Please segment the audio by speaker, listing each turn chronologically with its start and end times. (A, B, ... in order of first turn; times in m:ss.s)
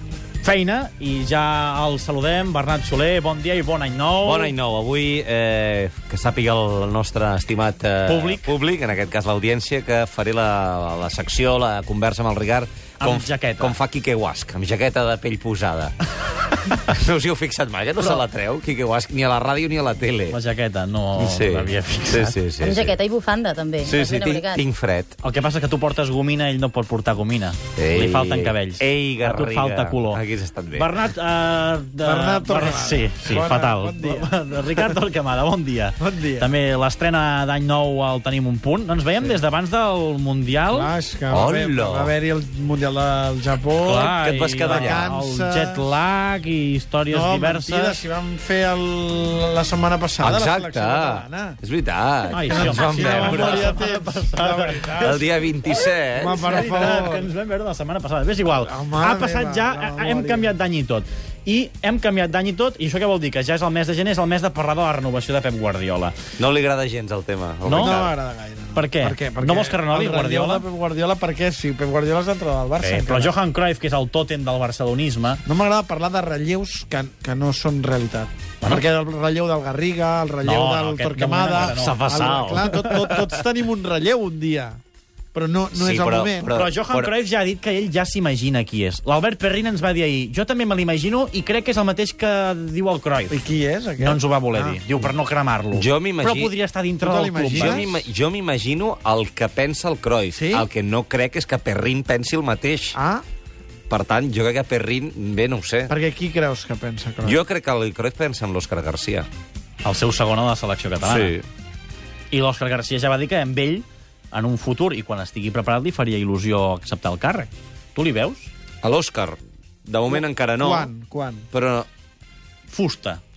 0:00.4-0:04.5 A
0:04.2-0:16.0 B
0:08.0-0:08.5 A
0:13.0-0:13.8 A
0:16.5-0:20.4 B
0:20.3-0:22.4 A
0:21.2-0:23.0 B
0:22.6-0:24.6 C
0:23.8-0:25.2 B
0:25.2-0:30.2 A
0:27.8-0:30.9 B
0:30.7-0:40.9 A
0:32.0-0:35.0 D
0:36.0-0:36.5 D
0:40.7-0:45.9 D
0:41.3-0:42.1 B
0:43.8-0:48.0 A
0:44.0-0:45.0 B
0:47.1-0:51.6 D
0:50.2-0:53.8 B
0:52.3-0:55.2 A
0:52.4-0:55.2 D
0:55.0-0:56.7 B
0:56.2-0:57.3 D
0:56.2-1:06.2 A
0:58.6-1:00.5 D
1:06.4-1:08.1 B
1:07.6-1:08.0 A
1:07.7-1:13.3 D
1:08.7-1:10.6 A
1:12.8-1:15.4 A
1:15.4-1:24.8 D
1:20.4-1:22.2 A
1:21.6-1:23.3 B
1:25.3-1:26.5 D
1:25.7-1:27.1 B
1:26.5-1:33.4 A
1:33.3-1:35.1 D
1:34.0-1:37.8 A
1:35.7-1:36.5 B
1:37.0-1:38.0 D
1:37.4-1:43.0 B
1:40.3-1:40.7 D
1:42.9-1:43.2 D
1:43.9-1:45.9 B
1:45.9-1:47.4 D
1:47.2-1:49.3 B
1:49.8-1:51.3 A
1:51.0-1:51.4 B
1:52.3-1:58.5 A
1:58.8-2:00.9 B
2:00.1-2:01.5 D
2:01.5-2:01.9 B
2:02.7-2:03.2 A